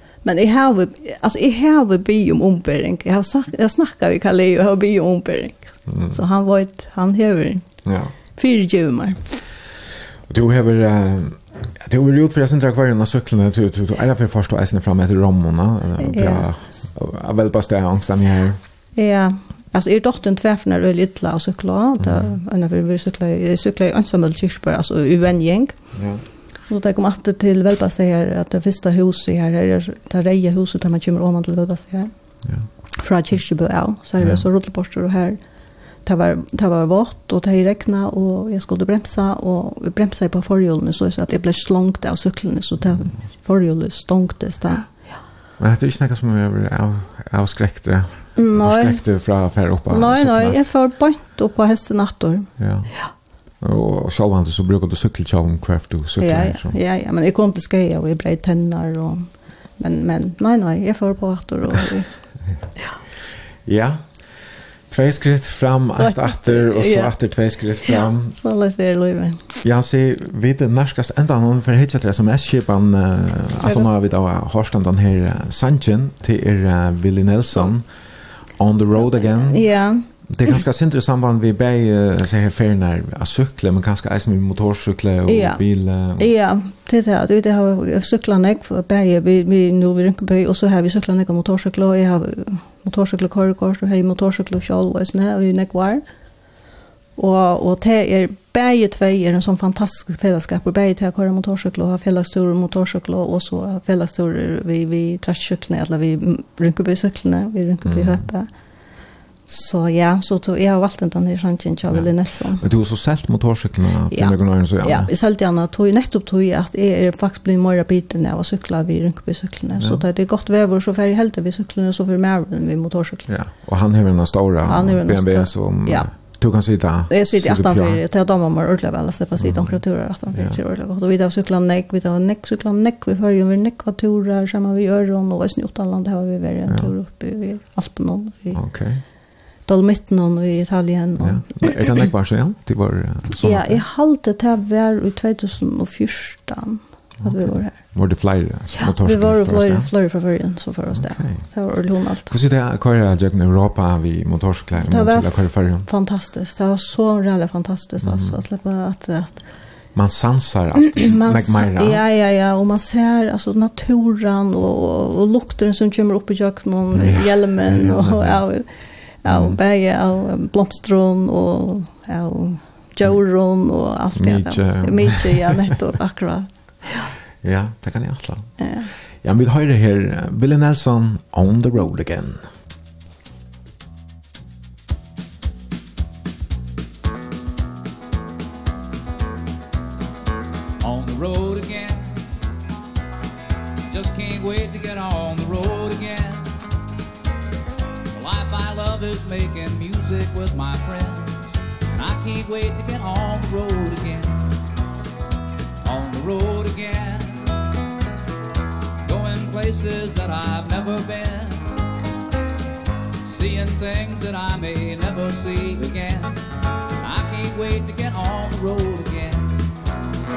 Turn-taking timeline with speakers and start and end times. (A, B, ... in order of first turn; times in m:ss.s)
0:00.2-0:07.6 A
0:05.9-0:06.2 B
0:07.8-0:08.1 B
0:08.4-0:09.2 A
0:10.3-0:18.6 B
0:16.0-0:16.5 A
0:19.0-0:25.7 A
0:22.0-0:22.4 B
0:25.9-0:26.2 B
0:26.7-0:32.1 A
0:33.0-0:35.4 A
0:36.0-0:44.9 A
0:45.6-0:50.7 B
0:48.4-0:49.0 A
0:49.9-0:52.5 A
0:52.6-0:52.9 B
0:53.6-0:56.8 B
0:56.2-1:02.1 A
1:03.6-1:04.0 B
1:04.9-1:08.4 B
1:06.0-1:07.1 A
1:07.9-1:09.4 A
1:09.6-1:17.9 B
1:13.6-1:13.9 A
1:18.6-1:19.7 B
1:19.4-1:20.0 A
1:20.3-1:26.3 B
1:25.3-1:25.6 A
1:26.2-1:36.0 A
1:37.2-1:48.5 A
1:47.8-1:48.3 B
1:49.5-1:52.6 A
1:52.6-1:55.1 B
1:54.1-2:03.3 A
2:03.3-2:08.0 B
2:04.6-2:06.1 A
2:07.1-2:18.6 A
2:09.4-2:09.8 B
2:10.3-2:10.6 B
2:18.5-2:19.0 B
2:19.6-2:21.7 A
2:21.2-2:23.8 B
2:23.4-2:27.8 A
2:27.2-2:29.9 B
2:28.9-2:32.3 A
2:30.9-2:31.4 B
2:32.3-2:35.9 B
2:34.8-2:39.4 A
2:38.0-2:38.4 B
2:39.9-2:42.0 B
2:40.8-2:48.7 A
2:46.9-2:48.4 B
2:49.2-2:56.5 A
2:49.2-2:49.6 B
2:54.1-2:55.7 B
2:57.4-2:58.6 B
2:58.6-2:58.9 A
2:59.2-3:02.5 B
3:10.8-3:12.2 C
3:13.9-3:16.5 C
3:18.1-3:24.4 C
3:25.8-3:27.5 C
3:29.0-3:31.7 C
3:33.2-3:36.4 C
3:37.0-3:39.5 C